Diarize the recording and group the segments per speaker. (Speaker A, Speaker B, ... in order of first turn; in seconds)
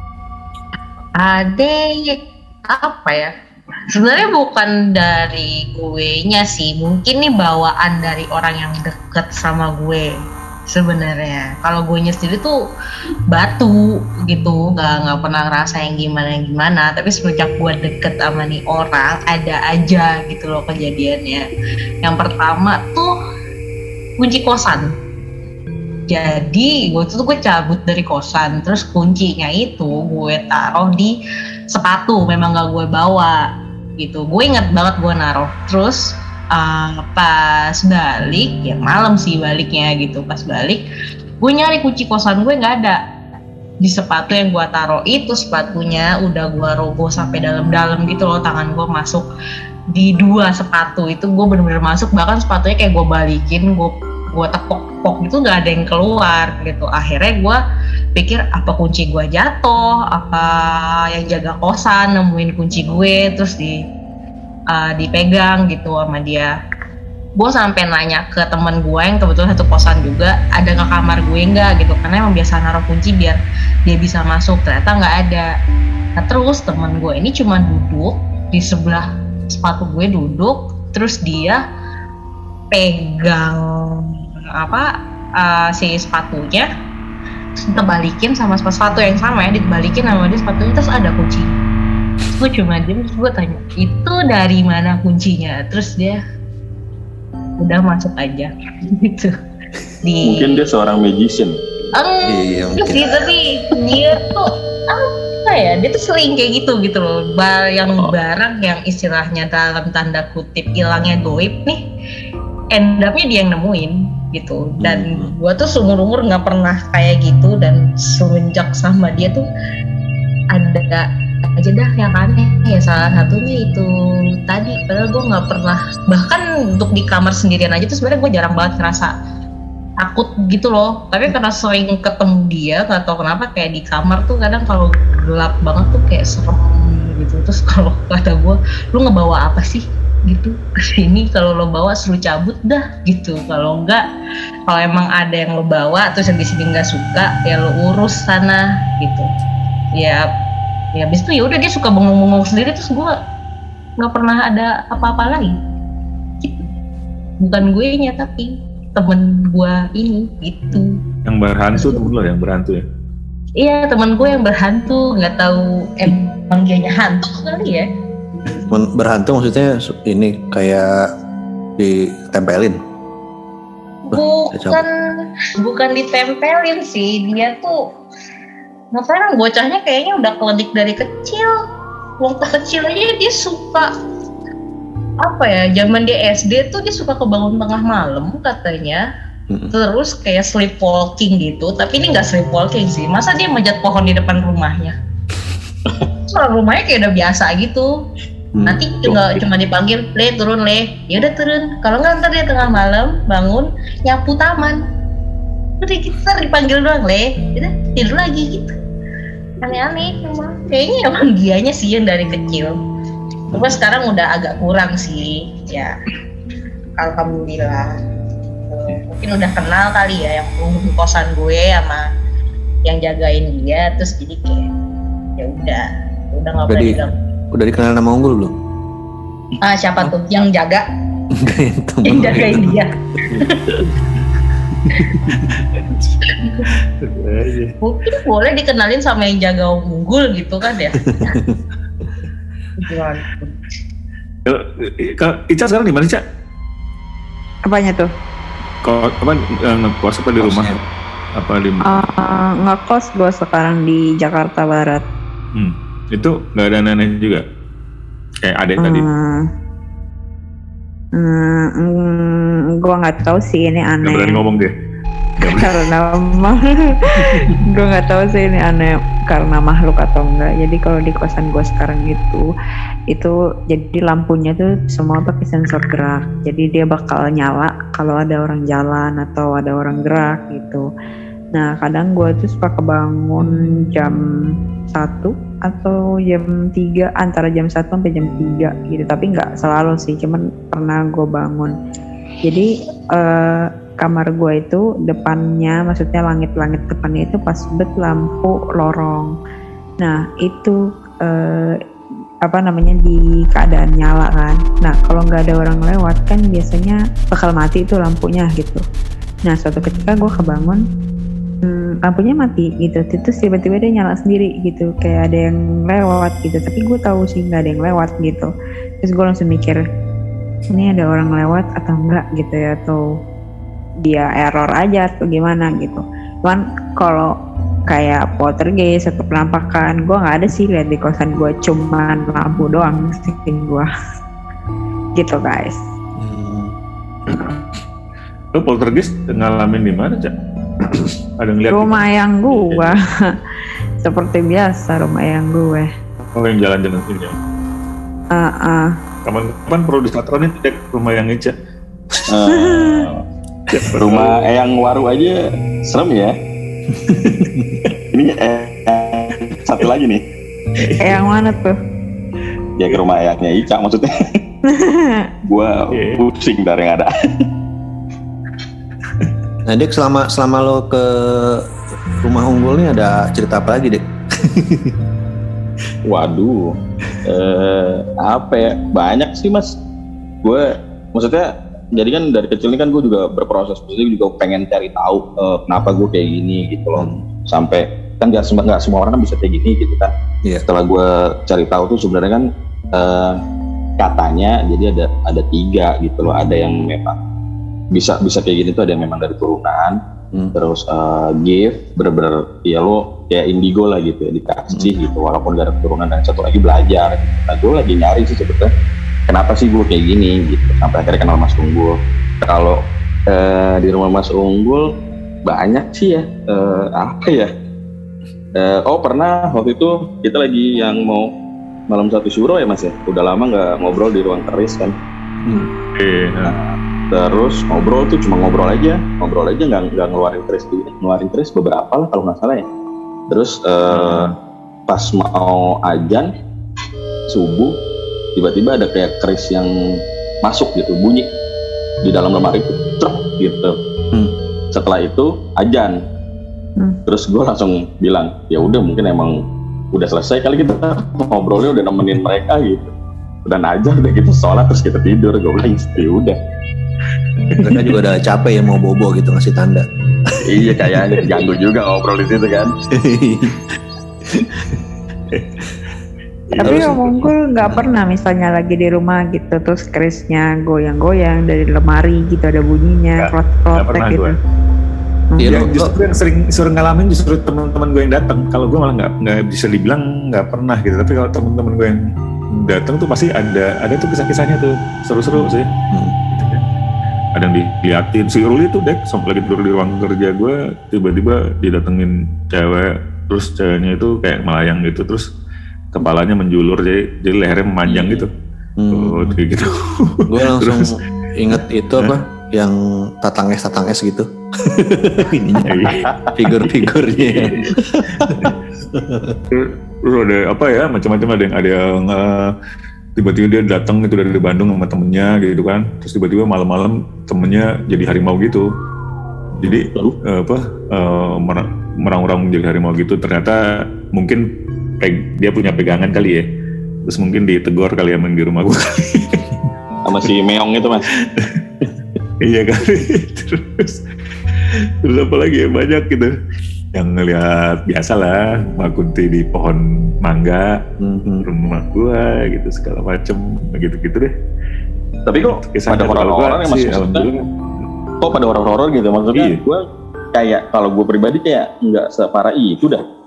Speaker A: 1.2-3.3, 3.9-10.1, 10.7-12.6, 13.3-21.5, 22.0-23.1, 24.2-24.9, 26.1-31.1, 31.7-33.4, 34.0-40.8, 41.4-43.0, 43.8-49.3, 49.9-57.6, 58.2-63.8, 64.7-66.5, 67.4-75.5, 76.2-81.6, 82.7-86.7, 87.6-91.5, 92.4-96.2, 97.6-99.4, 100.0-100.6, 102.0-111.8, 112.7-119.5, 120.5-123.9, 124.5-129.1, 130.0-144.0, 144.7-149.3, 150.0-150.3, 150.9-153.2, 154.0-155.6, 156.4-156.7, 157.4-161.0, 161.8-162.0, 163.6-167.9, 174.1-177.8, 178.9-181.5, 182.2-183.9, 185.2-189.1, 189.7-194.9, 196.3-197.9, 198.6-204.8, 205.8-208.8, 209.6-212.8, 213.5-215.9, 217.0-217.9, 218.5-222.1, 222.8-224.7, 225.4-227.2, 229.6-230.8, 232.1-233.8, 236.3-236.7, 237.8-241.3, 242.8-243.6
Speaker B: 100.2-101.6, 107.9-108.2, 352.3-353.2, 353.9-356.4, 358.1-360.2, 362.8-364.1, 365.4-367.5, 376.1-379.8, 380.4-390.1, 390.7-393.4, 394.0-397.2, 397.9-400.0, 400.6-408.7, 409.3-414.9, 415.4-417.5, 418.6-421.3, 421.9-424.9, 426.5-432.6, 433.3-434.3, 434.9-436.3, 437.3-437.8, 438.4-441.3, 442.0-443.8, 444.7-446.0, 447.1-449.4, 449.9-452.9, 453.5-456.4, 460.4-462.7, 497.9-498.3, 505.9-506.5, 507.4-507.7, 519.6-520.2, 530.0-531.1, 545.3-547.3, 548.2-549.8, 550.3-553.0
Speaker C: 102.2-103.2, 114.8-115.3, 168.7-171.1, 171.8-172.8, 174.1-174.8, 198.6-198.9, 226.7-227.0, 227.5-228.5, 231.3-232.8, 235.2-235.5, 241.0-241.6, 250.4-250.8, 336.2-336.8, 356.9-357.8, 369.7-371.6, 372.2-375.0, 386.9-387.2, 457.6-461.1, 462.9-464.8, 466.6-467.0, 475.4-476.1, 485.3-486.2, 498.8-499.4, 500.3-509.4, 541.0-541.5
Speaker D: 161.3-162.8, 235.3-236.0, 237.0-237.7, 244.4-246.2, 248.8-250.8, 251.4-252.0, 255.6-257.4, 258.4-259.1, 264.0-264.7, 265.4-265.9, 337.3-337.6, 338.5-340.3, 340.9-342.9, 346.3-347.4, 349.2-351.6, 353.7-354.4, 360.8-361.1, 365.9-366.2, 426.0-426.6, 433.9-434.3, 465.3-465.6, 466.5-467.3, 473.2-474.4, 475.4-482.0, 482.5-485.7, 486.3-486.7, 487.4-495.3, 495.9-498.3, 498.9-500.9, 505.7-506.1, 508.2-508.6, 509.5-512.5, 513.2-518.7, 519.6-524.4, 525.0-526.4, 527.0-529.6, 531.2-531.6, 532.4-534.0, 534.7-536.4, 537.0-540.8, 541.4-544.3, 545.4-547.5, 549.3-549.6
Speaker E: 247.7-248.1, 251.9-255.0, 258.8-259.5, 261.2-264.4, 265.5-272.4, 273.1-280.9, 281.6-284.2, 284.9-291.7, 292.4-299.3, 300.0-301.8, 302.5-308.8, 309.5-310.8, 311.6-318.5, 319.0-319.8, 320.7-323.0, 324.0-327.3, 327.9-333.9, 335.2-335.8, 341.7-343.0, 344.0-345.9, 348.3-348.9, 352.5-353.1, 361.0-361.8, 364.7-365.3, 466.6-474.4, 475.3-475.6